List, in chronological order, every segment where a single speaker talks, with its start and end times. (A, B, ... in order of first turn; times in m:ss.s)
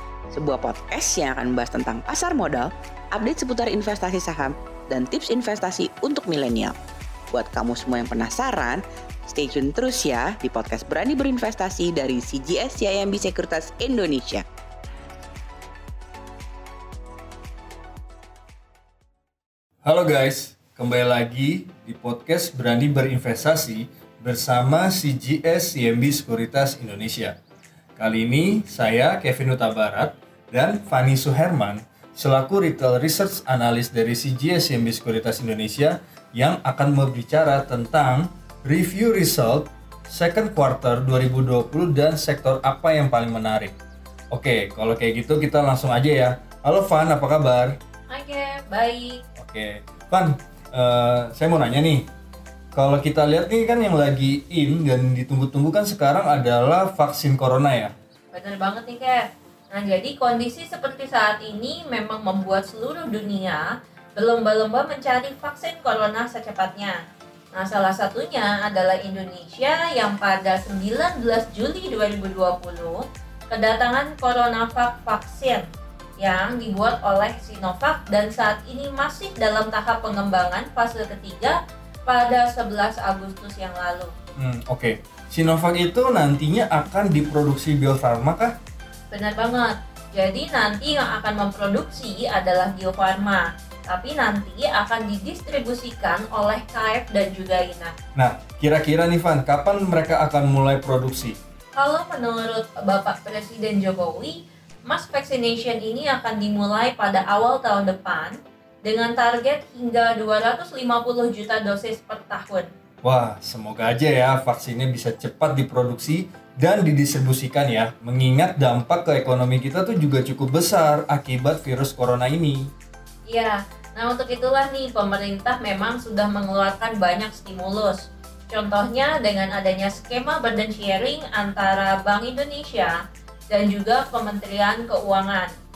0:00.3-0:06.8 A
0:07.3-0:14.4 A
0:19.8-0:27.4 B
0:28.0-0:43.7 B
0:44.3-0:47.8 B
0:48.1-0:49.2 C
0:49.4-0:52.1 B
0:52.7-0:57.9 B
0:58.3-1:07.0 C
1:07.5-1:15.7 C
1:16.2-1:24.1 C
1:24.4-1:28.5 B
1:29.1-1:37.9 C
1:38.2-1:41.4 B
1:41.7-1:52.7 C
1:53.0-2:02.7 B
2:03.3-2:12.9 C
2:13.5-2:15.5 C